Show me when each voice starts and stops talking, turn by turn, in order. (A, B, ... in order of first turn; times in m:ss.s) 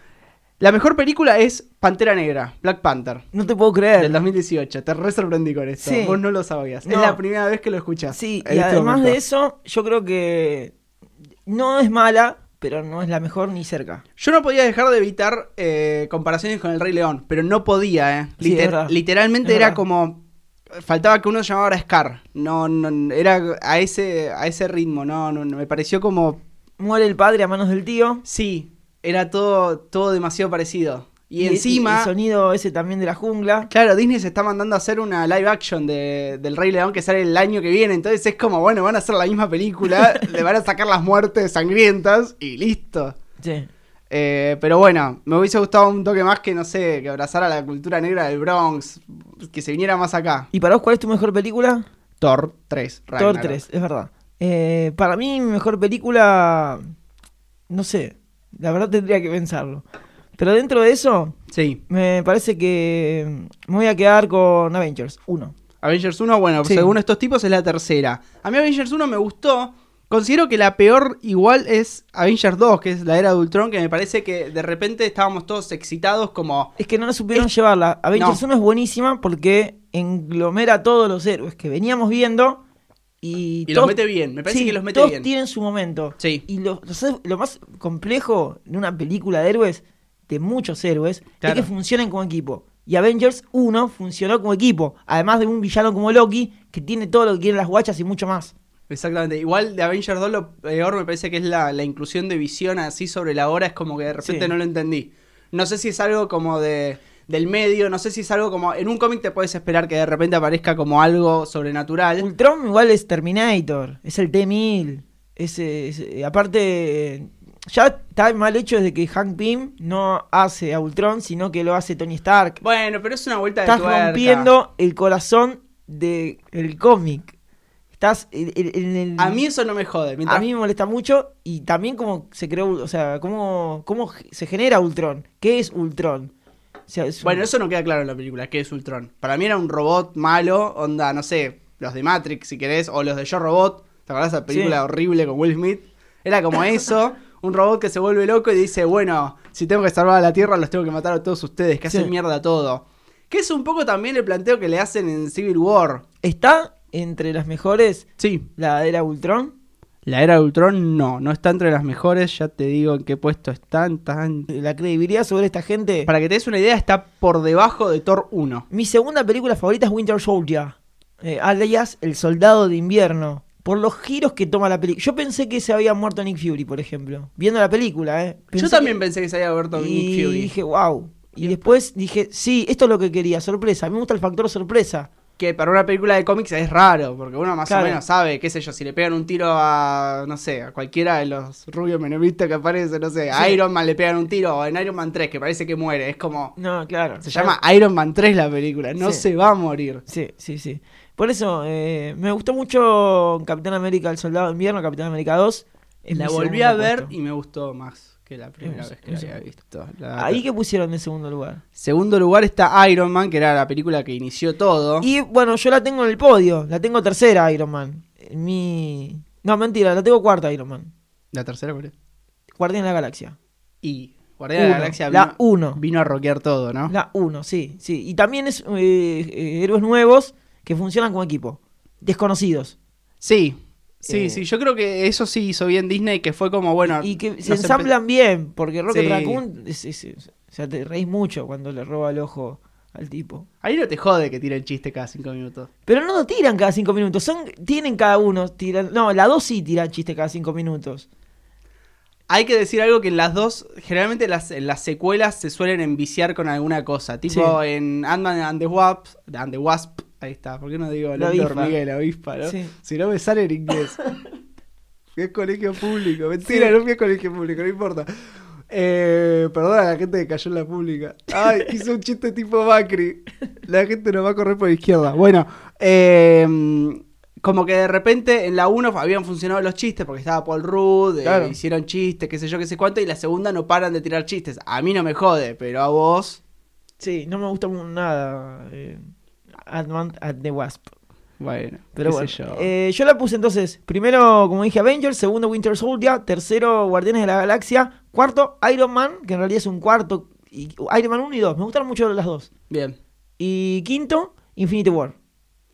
0:00.6-0:03.2 A
0:03.3-0:04.2 B
0:04.0-0:09.2 A
0:05.8-0:06.2 B
0:06.8-0:07.2 B
0:08.1-0:10.7 B
0:11.4-0:14.0 B
0:14.2-0:20.2 A
0:18.4-0:19.8 B
0:20.7-0:26.4 A
0:26.8-0:28.2 B
0:28.2-0:32.1 A
0:31.4-0:33.7 B
0:33.7-0:43.2 A
0:43.4-0:43.7 B
0:44.1-0:50.5 A
0:50.5-0:51.8 B
0:52.2-0:53.6 A
0:53.2-0:56.9 B
0:57.7-0:59.8 B
1:00.4-1:01.4 B
1:01.5-1:01.8 A
1:01.9-1:05.5 B
1:05.8-1:16.7 A
1:06.6-1:06.9 B
1:16.8-1:22.6 B
1:18.1-1:18.4 A
1:23.2-1:38.5 B
1:23.7-1:25.3 A
1:26.2-1:26.4 A
1:31.4-1:31.7 A
1:38.9-1:52.3 A
1:44.2-1:44.5 B
1:52.2-2:02.6 B
2:02.6-2:04.5 A
2:03.6-2:07.3 B
2:07.9-2:09.4 B
2:09.2-2:10.4 A
2:10.3-2:16.3 B
2:16.9-2:17.5 B
2:17.2-2:36.0 A
2:24.5-2:24.8 B
2:36.2-2:38.0 B
2:38.2-2:38.5 A
2:38.6-2:39.5 B
2:40.0-2:44.5 A
2:44.5-2:46.1 B
2:46.1-2:48.6 A
2:48.7-2:59.0 B
2:58.6-3:00.5 A
2:59.7-3:05.1 B
3:01.4-3:01.7 A
3:05.4-3:16.5 A
3:07.7-3:08.0 B
3:13.3-3:13.6 B
3:16.6-3:17.5 B
3:17.2-3:20.0 A
3:20.1-3:27.1 B
3:26.1-3:30.4 A
3:28.6-3:29.3 B
3:30.2-3:31.6 B
3:31.8-3:35.1 A
3:35.0-3:40.9 B
3:41.3-3:41.9 A
3:42.6-3:43.4 B
3:43.8-3:46.9 A
3:44.6-3:45.8 B
3:46.9-3:52.7 B
3:53.2-3:57.9 A
3:54.1-3:54.4 B
3:57.0-4:03.5 B
3:58.9-3:59.4 A
4:03.6-4:05.7 A
4:05.8-4:11.1 B
4:12.3-4:24.0 A
4:17.3-4:17.5 B
4:21.2-4:21.7 B
4:22.4-4:22.7 B
4:25.1-4:28.1 A
4:26.4-4:26.7 B
4:28.7-4:46.4 A
4:41.2-4:41.6 B
4:47.0-4:49.1 B
4:49.6-4:50.9 B
4:51.4-4:52.7 A
4:51.9-5:02.5 B
5:02.7-5:03.0 A
5:03.4-5:05.1 B